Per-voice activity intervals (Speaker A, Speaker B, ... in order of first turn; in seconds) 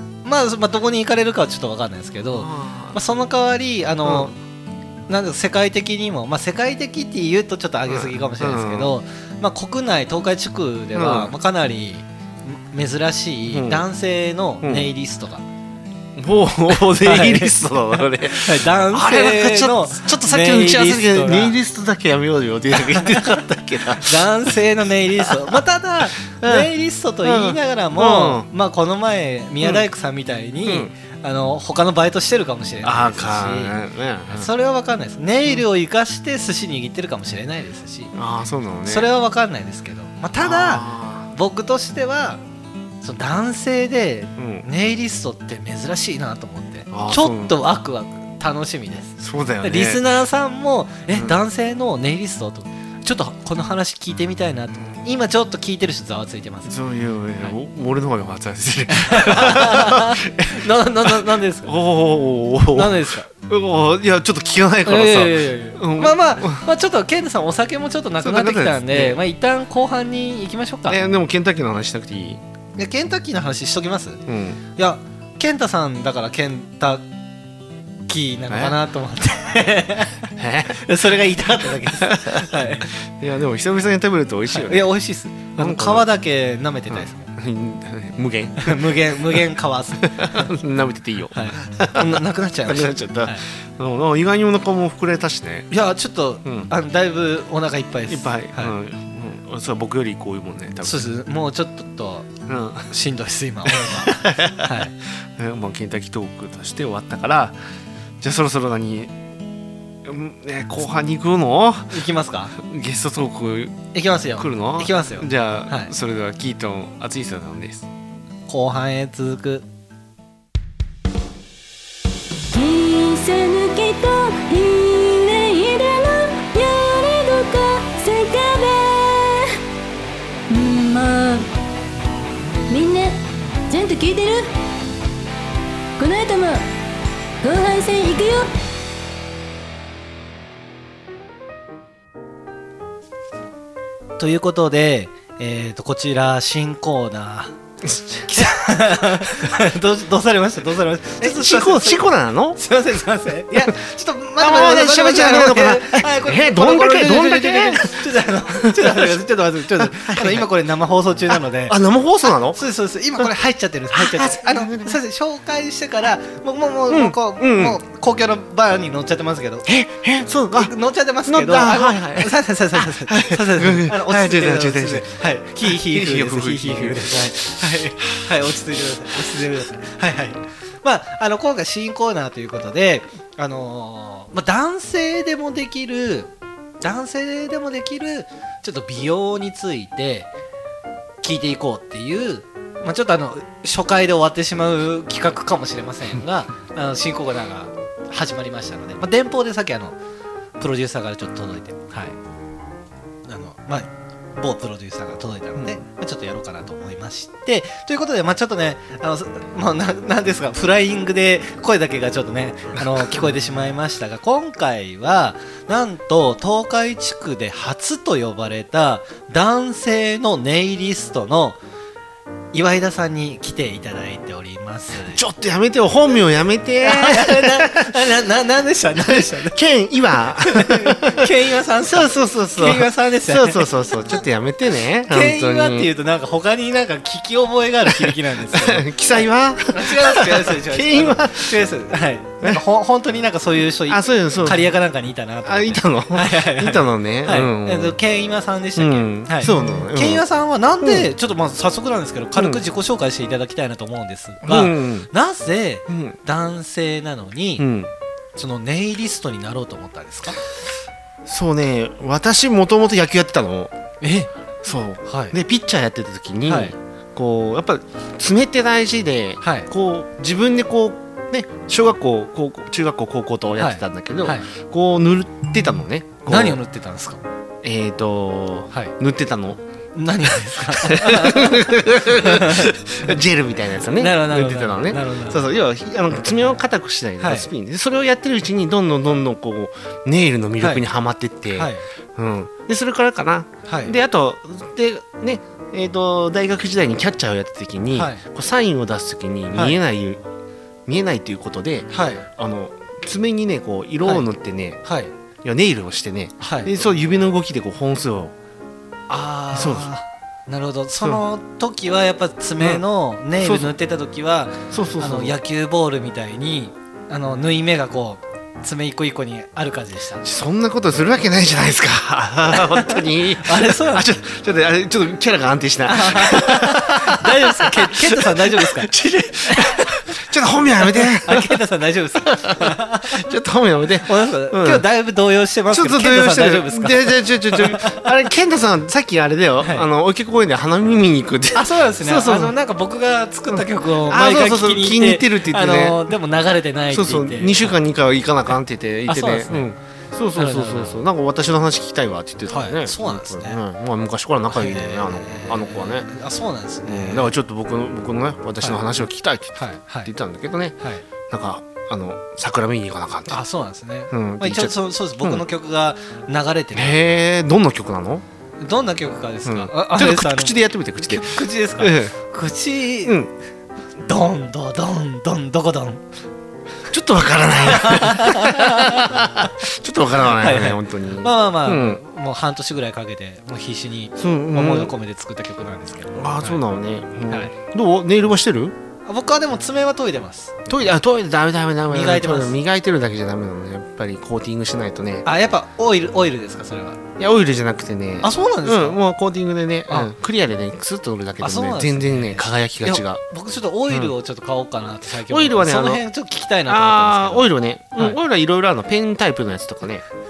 Speaker A: 0.2-4.4, 5.1-15.4, 16.7-21.6, 22.9-23.3, 24.0-33.8, 34.3-38.1, 38.9-42.4, 43.0-56.7, 58.9-61.8, 62.7-63.3, 64.8-71.0, 72.8-74.2, 74.8-77.0, 78.1-82.9, 84.5-87.3, 88.6-90.5, 91.3-93.4, 95.7-98.8, 100.8-102.3, 102.9-104.9, 111.9-112.6, 113.9-115.9, 118.5-119.7, 144.2-147.5, 148.1-161.8, 162.5-169.7, 170.5-190.3, 191.2-200.0, 200.6-202.2, 203.3-221.6, 222.5-225.2, 226.8-229.6, 230.4-233.7, 235.1-238.9, 239.7-257.7, 258.4-260.4, 264.0-264.3, 265.1-265.4, 266.5-266.8, 269.4-269.7, 273.6-274.5, 276.3-277.2, 279.9-282.8, 284.0-285.5, 287.2-287.5, 291.5-291.9, 293.7-293.9, 297.9-298.2, 299.5-299.8, 301.9-302.3, 304.8-305.1, 306.4-306.7, 309.1-320.2, 322.7-324.1, 325.9-328.9, 329.5-329.9, 330.8-333.2, 334.1-338.1, 339.6-339.9, 341.5-347.8, 349.1-349.7, 350.3-351.0, 352.5-353.6, 354.5-357.3, 359.6-360.1, 363.3-367.2, 368.6-373.2, 374.0-376.0, 377.7-379.3, 380.2-386.6, 389.1-390.7, 391.9-392.6, 395.2-397.0, 398.2-399.0, 401.4-408.2
Speaker B: 2.3-3.0, 4.0-4.3, 7.9-8.9, 10.9-11.3, 13.5-13.9, 14.6-14.9, 16.2-24.5, 25.1-25.6, 26.3-26.7, 27.2-28.5, 30.6-30.9, 32.8-34.5, 38.1-39.1, 40.4-41.3, 44.4-44.7, 46.9-47.6, 49.2-50.0, 54.8-55.1, 56.7-66.7, 68.2-69.2, 70.9-72.4, 74.3-74.6, 78.5-78.8, 80.3-80.9, 81.7-84.9, 85.6-86.1, 86.9-89.5, 90.0-95.7, 96.5-96.7, 98.1-101.1, 102.5-102.9, 103.7-107.6, 108.2-109.1, 110.0-112.0, 112.5-117.9, 147.8-148.3, 151.2-152.6, 154.4-159.2, 159.8-160.5, 161.3-162.6, 163.9-165.0, 166.9-167.8, 169.7-170.7, 171.3-178.2, 212.8-213.2, 225.0-228.0, 229.0-231.3, 231.9-235.9, 237.9-241.6, 243.9-244.7, 245.4-248.0, 248.8-250.2, 250.8-251.1, 252.3-252.6, 254.4-255.1, 255.9-256.2, 257.6-257.9, 261.3-263.7, 264.6-276.6, 277.6-279.6, 280.7-300.2, 300.9-304.8, 305.4-308.3, 309.5-309.9, 313.4-313.7, 314.7-315.4, 320.2-331.6, 332.2-334.9, 335.7-342.6, 343.5-346.1, 346.9-356.1, 356.9-360.8, 361.3-363.4, 364.1-365.4, 366.7-368.2, 369.4-372.1, 373.0-373.3, 376.9-382.0, 384.2-384.9, 386.1-388.8, 390.7-395.3, 397.2-403.2, 403.9-404.1, 405.3-406.1, 406.7-410.1
Speaker C: 122.5-129.6, 130.5-131.5, 132.7-134.5, 136.0-136.6, 137.4-138.5